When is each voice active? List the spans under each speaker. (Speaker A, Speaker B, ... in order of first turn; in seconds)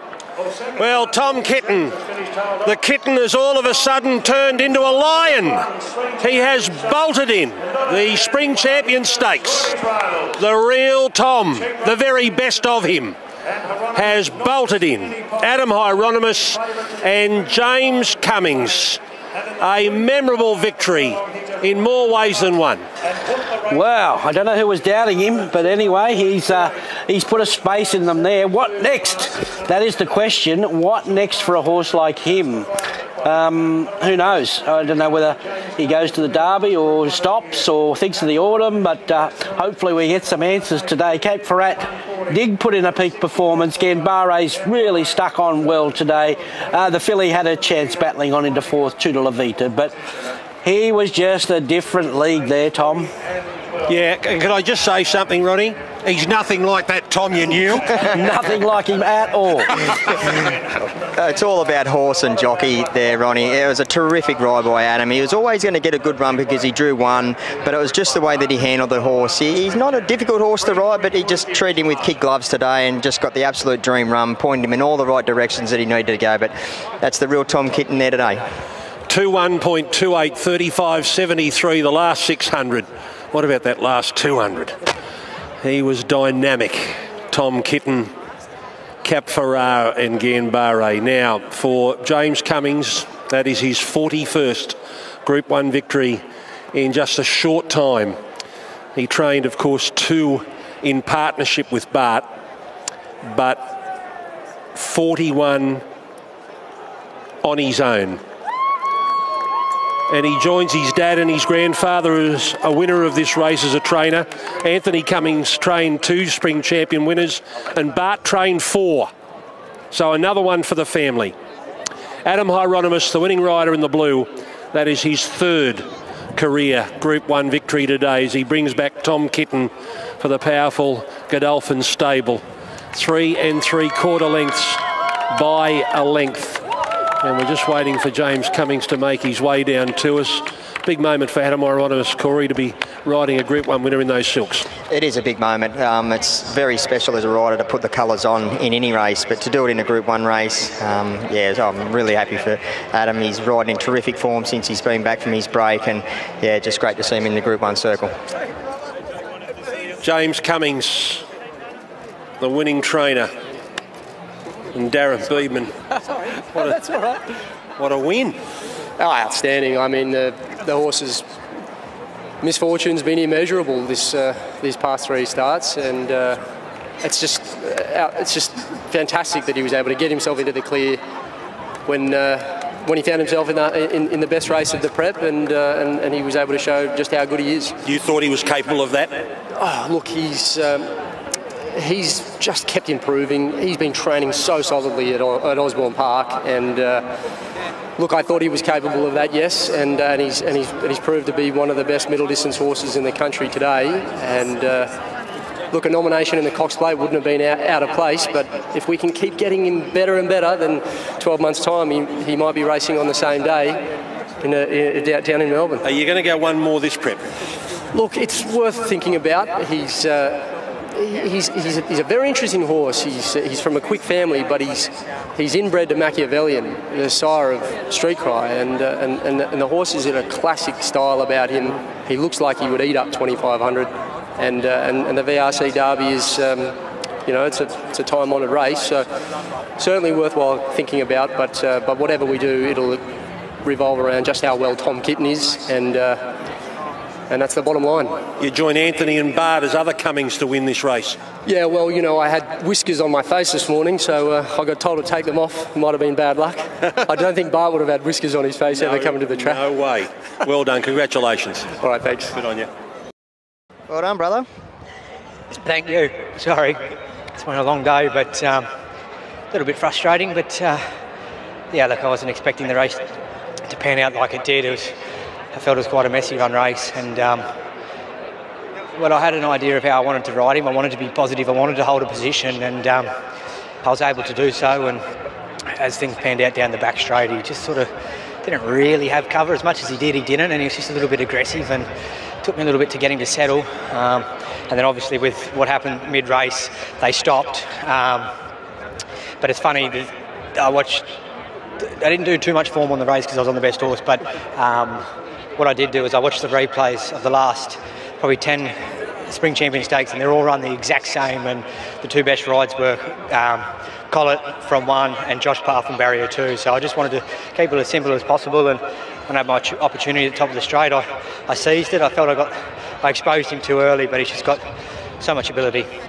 Speaker A: 0.8-2.1, 2.6-13.1, 13.9-19.0, 19.6-22.8, 53.9-58.1, 79.1-84.8, 85.6-88.1, 89.0-98.2, 98.9-102.2, 103.2-103.6, 104.7-105.8, 107.4-108.2, 110.1-119.1, 119.9-121.3, 122.2-134.8, 135.3-136.6, 137.2-144.7, 160.0-161.2, 162.4-163.3, 164.7-165.7, 166.5-166.8, 167.8-168.4, 187.8-189.2, 215.8-217.3, 248.4-251.2, 258.7-261.7, 262.3-262.7
Speaker B: 23.7-32.7, 33.2-49.9, 50.6-53.1, 58.1-59.7
Speaker C: 61.0-78.4, 144.9-158.1, 263.9-264.4
Speaker D: 169.0-171.2, 172.4-176.4, 177.0-181.0, 181.8-187.8, 189.5-190.9, 191.7-197.0, 198.0-204.9, 205.7-213.8, 214.4-215.8, 217.9-239.0, 239.8-243.0, 243.6-246.2, 247.3-248.2, 251.4-259.6, 261.8-262.3
Speaker E: 265.5-266.8, 267.3-268.7, 269.5-270.8, 271.7-273.0, 273.6-274.9, 275.5-277.4, 278.9-283.1, 283.8-285.0, 285.7-287.9, 288.4-291.9, 292.4-298.3, 299.4-301.0, 301.8-305.0, 305.6-324.6, 325.2-325.9